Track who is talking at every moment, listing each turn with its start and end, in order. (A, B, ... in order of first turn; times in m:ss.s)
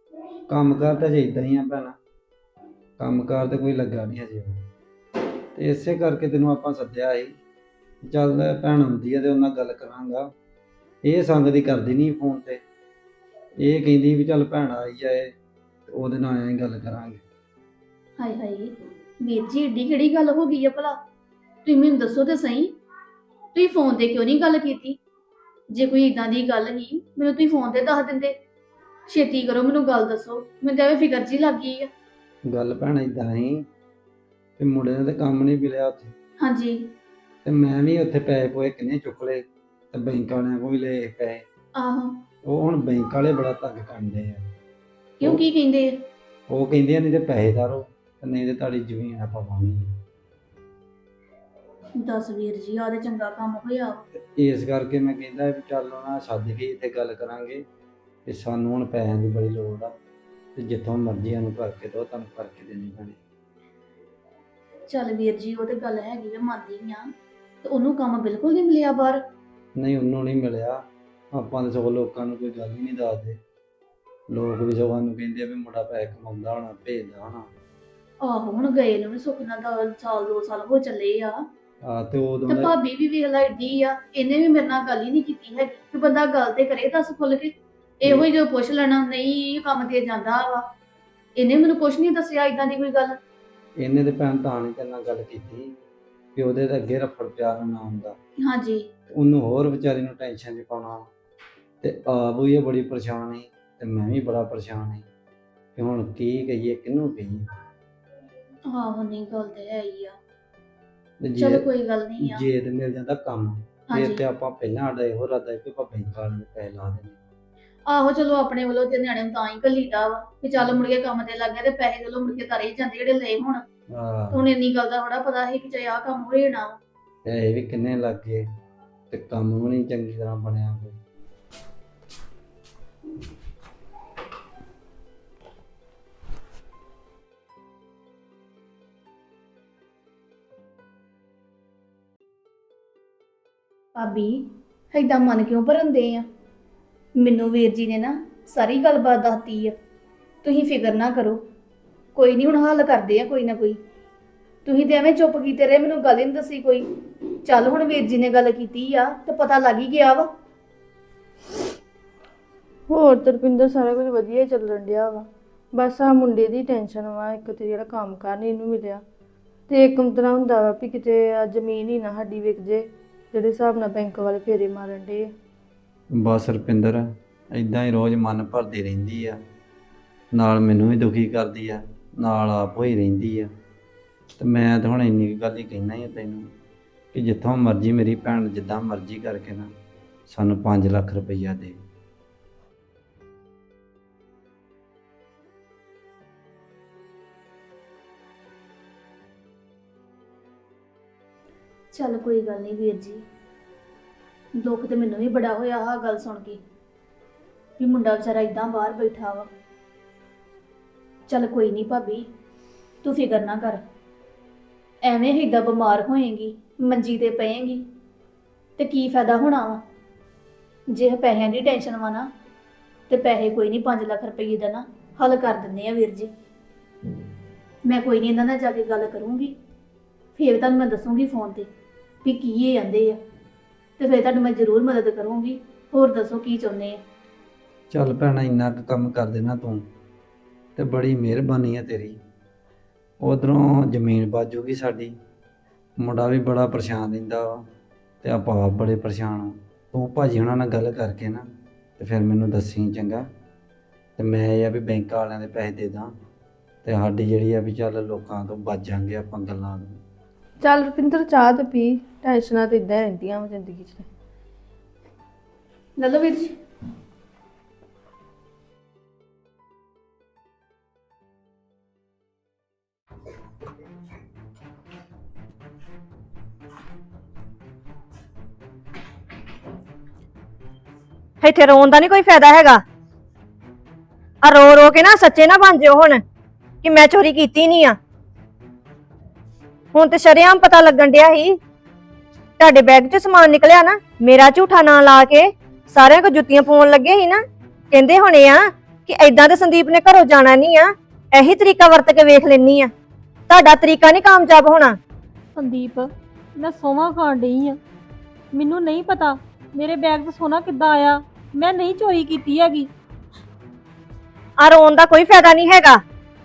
0:00.5-0:01.9 A
0:03.0-0:04.6 A
0:05.6-0:07.3 A
0:08.1-0:10.2 A
0:11.1-0:12.6 A
0:13.6-0:15.3 A
0:15.9-0:17.2 A
0:18.2-0:20.9 B
0:21.6-0:22.7 B
0:23.5-0:25.0 B
0:25.7-0:28.3 B
0:29.1-0:31.9 B
0:32.5-0:33.6 A
0:34.6-0:36.1 A
0:36.4-0:36.9 B
0:37.4-0:41.4 A
0:41.8-0:42.1 B
0:42.5-0:44.4 A
0:45.2-0:45.9 B
0:46.5-0:49.8 A
0:52.0-0:54.0 B
0:54.4-0:57.6 A
0:58.3-0:59.9 A
1:00.6-1:03.1 A
1:04.9-1:07.1 B
1:07.6-1:09.2 B
1:09.8-1:10.8 A
1:11.4-1:13.3 A
1:14.3-1:17.5 A
1:18.2-1:21.4 B
1:21.9-1:22.7 A
1:22.5-1:30.6 B
1:31.4-1:33.2 B
1:33.8-1:35.7 A
1:36.4-1:38.1 A
1:38.4-1:38.8 B
1:39.2-1:41.0 A
1:41.8-1:45.0 A
1:45.8-1:47.3 A
1:48.7-1:50.2 B
1:51.4-1:52.4 B
1:52.2-1:53.5 A
1:53.9-1:54.2 B
1:54.2-1:57.2 A
1:57.9-2:03.6 B
2:04.3-2:06.8 B
2:07.3-2:08.4 A
2:09.1-2:10.9 A
2:24.0-2:24.4 B
2:24.9-2:26.2 B
2:27.2-2:29.7 B
2:30.4-2:31.4 B
2:32.1-2:33.8 B
2:34.6-2:36.9 B
2:37.4-2:40.3 B
2:42.9-2:49.0 C
2:49.7-2:55.3 C
2:56.2-2:57.0 A
2:57.6-2:59.4 A
3:00.4-3:03.5 A
3:04.4-3:06.4 A
3:07.1-3:09.7 A
3:10.3-3:11.7 A
3:21.9-3:23.2 B
3:24.6-3:26.6 B
3:27.8-3:29.5 B
3:31.3-3:32.2 B
3:33.0-3:33.8 B
3:35.0-3:37.8 B
3:38.8-3:39.8 B
3:40.9-3:42.3 B
3:43.1-3:46.3 B
3:47.8-3:49.5 B
3:50.4-3:51.7 B
3:52.2-3:53.2 B
3:54.0-3:57.0 B
3:57.9-3:59.8 A
4:00.8-4:02.2 A
4:03.2-4:05.1 A
4:06.0-4:07.6 A
4:08.2-4:11.4 A
4:12.0-4:13.2 A
4:14.2-4:16.1 A
4:16.8-4:20.0 A
4:20.6-4:24.1 C
4:26.0-4:26.5 B
4:41.4-4:42.8 D
4:44.4-4:46.2 D
4:46.8-4:48.0 D
4:49.9-4:51.6 D
4:52.6-5:02.9 D
5:03.5-5:05.0 D
5:05.6-5:07.8 E
5:08.5-5:12.9 E
5:14.6-5:16.0 D